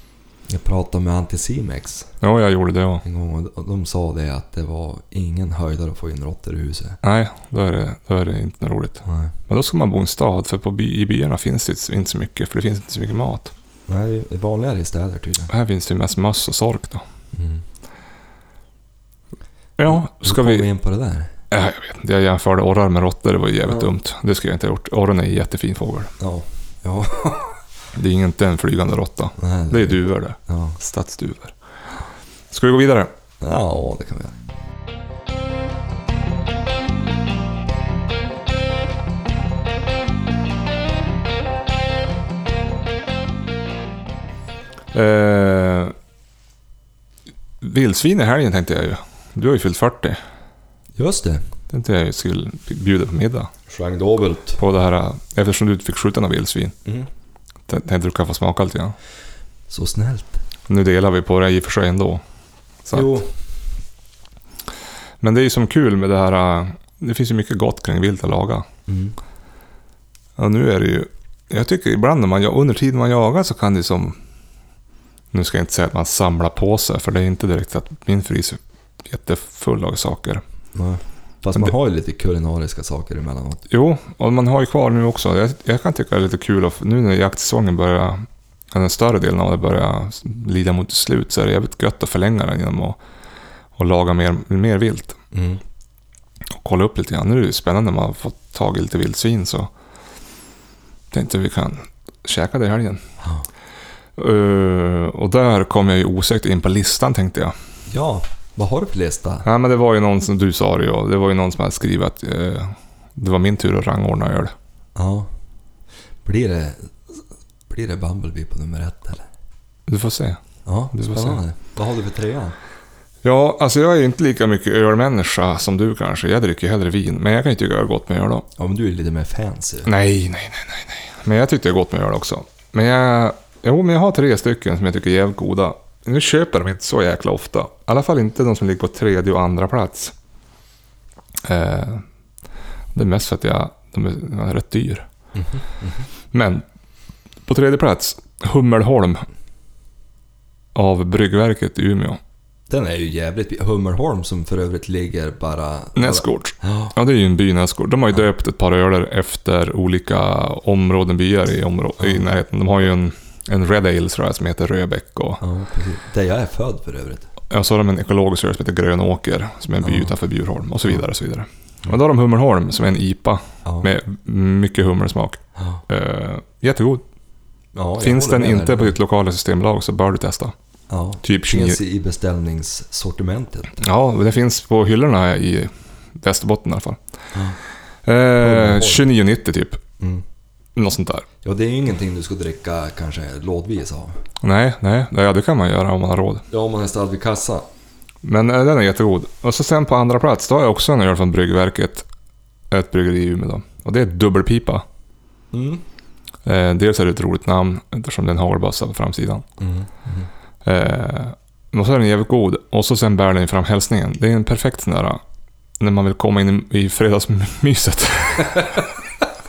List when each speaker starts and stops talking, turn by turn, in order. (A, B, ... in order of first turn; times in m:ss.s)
0:00.5-0:02.1 A
0:02.2-0:03.0 B
0:03.0-0:07.0 A
0:07.0-0:13.5 B
0:09.0-0:09.3 A
0:13.9-0:15.5 A
0:15.5-0:17.0 B
0:17.3-0:17.6 A
0:19.8-0:20.6 B
0:19.9-0:21.3 A
0:21.5-0:26.1 B
0:26.2-0:27.6 A
0:28.0-0:31.6 B
0:29.4-0:30.8 A
0:32.5-0:33.1 B
0:33.4-0:34.4 A
0:44.9-0:45.9 B
0:47.6-0:50.2 B
0:51.0-0:51.4 A
0:51.7-0:53.5 B
0:53.7-0:54.6 A
0:54.6-0:56.8 B
0:57.7-0:59.0 B
0:59.7-1:00.4 A
1:00.7-1:02.2 B
1:02.8-1:03.2 B
1:02.9-1:03.3 A
1:05.2-1:08.7 B
1:08.9-1:09.2 A
1:10.4-1:14.2 B
1:15.3-1:20.4 B
1:20.8-1:23.6 A
1:23.7-1:33.0 B
1:33.8-1:35.2 B
1:35.3-1:35.6 A
1:36.5-1:39.7 B
1:41.1-1:43.0 B
1:43.2-1:43.5 A
1:44.2-1:47.5 B
1:47.9-1:49.5 A
1:49.4-1:54.5 B
1:55.0-1:55.3 A
1:56.2-1:57.2 A
1:57.7-1:59.2 A
1:59.9-2:00.4 B
2:00.6-2:02.6 A
2:00.9-2:01.4 B
2:03.2-2:08.5 B
2:08.6-2:09.9 A
2:09.9-2:20.1 B
2:21.4-2:22.0 B
2:22.9-2:25.1 B
2:25.4-2:26.1 A
2:26.3-2:26.6 B
2:27.5-2:29.2 B
2:30.8-2:32.2 B
2:32.7-2:36.9 A
2:36.0-2:45.4 B
2:45.4-2:47.3 A
2:47.5-2:57.0 B
2:49.8-2:50.1 A
2:55.6-2:55.8 A
2:57.8-2:59.0 A
2:58.0-3:00.5 B
3:00.9-3:03.8 A
3:01.2-3:01.8 B
3:03.8-3:07.0 B
3:08.0-3:09.8 B
3:08.4-3:09.1 A
3:10.0-3:10.2 A
3:10.8-3:11.3 B
3:11.4-3:14.2 A
3:14.4-3:16.4 B
3:16.5-3:17.6 A
3:18.2-3:22.1 B
3:22.7-3:24.8 B
3:25.5-3:25.8 A
3:26.4-3:29.4 B
3:29.6-3:30.3 A
3:30.6-3:35.2 B
3:35.8-3:38.9 B